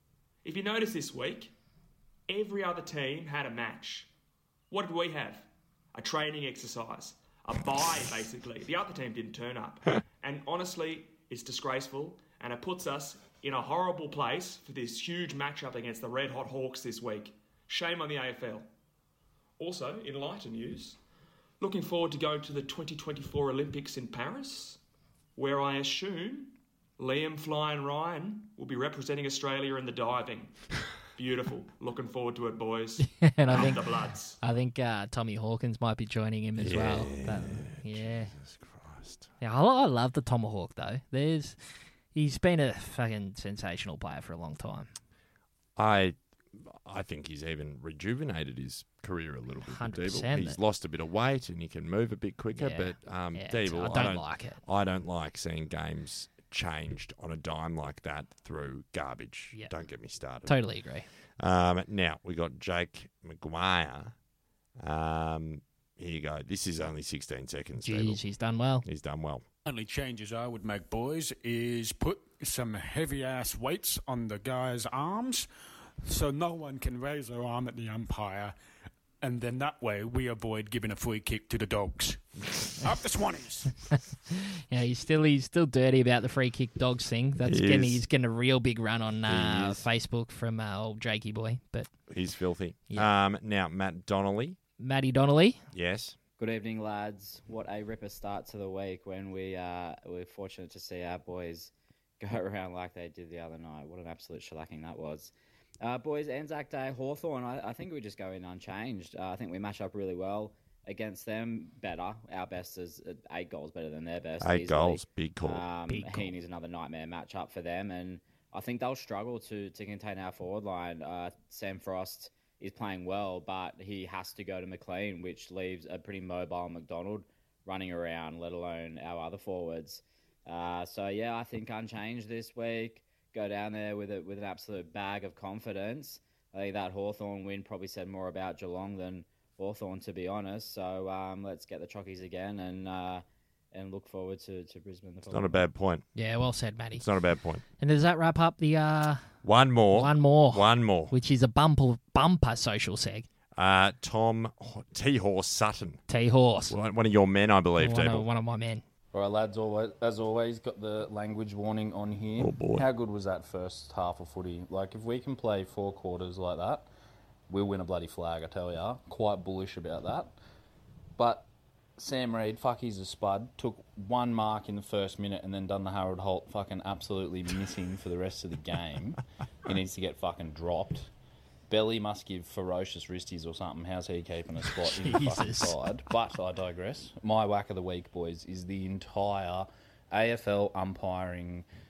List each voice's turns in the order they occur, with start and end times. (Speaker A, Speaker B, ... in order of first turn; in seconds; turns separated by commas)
Speaker A: 0.4-1.5, Speaker A: 2.3-4.1, Speaker A: 4.7-18.7, Speaker A: 19.6-21.0, Speaker A: 21.6-24.8, Speaker A: 25.4-30.5, Speaker A: 31.2-34.4, Speaker B: 33.2-33.8, Speaker B: 34.4-38.3, Speaker C: 36.6-39.3, Speaker B: 39.4-41.6, Speaker B: 42.1-44.9, Speaker C: 45.8-60.6, Speaker B: 49.6-50.6, Speaker B: 52.6-54.6, Speaker B: 60.5-61.1, Speaker C: 61.4-64.1, Speaker C: 64.8-68.2, Speaker B: 67.8-68.8, Speaker C: 68.8-69.5, Speaker D: 69.7-75.4, Speaker D: 76.1-78.5, Speaker D: 79.2-82.2, Speaker D: 82.8-83.7, Speaker B: 84.3-91.9, Speaker C: 87.5-88.0, Speaker C: 89.3-89.8, Speaker C: 92.1-94.6, Speaker B: 94.8-95.6, Speaker C: 95.7-96.2, Speaker E: 96.4-145.7, Speaker C: 114.4-115.6, Speaker B: 115.9-116.3, Speaker C: 145.3-146.1, Speaker B: 146.2-147.1, Speaker C: 147.0-147.6, Speaker B: 147.8-149.3, Speaker C: 149.4-151.1, Speaker B: 149.9-153.3, Speaker C: 153.6-156.0, Speaker B: 156.1-156.8, Speaker C: 156.7-158.3, Speaker B: 157.8-158.8, Speaker F: 159.1-166.9, Speaker C: 162.4-162.9, Speaker F: 167.5-170.3, Speaker F: 171.2-181.1, Speaker F: 181.7-191.7, Speaker B: 185.0-185.8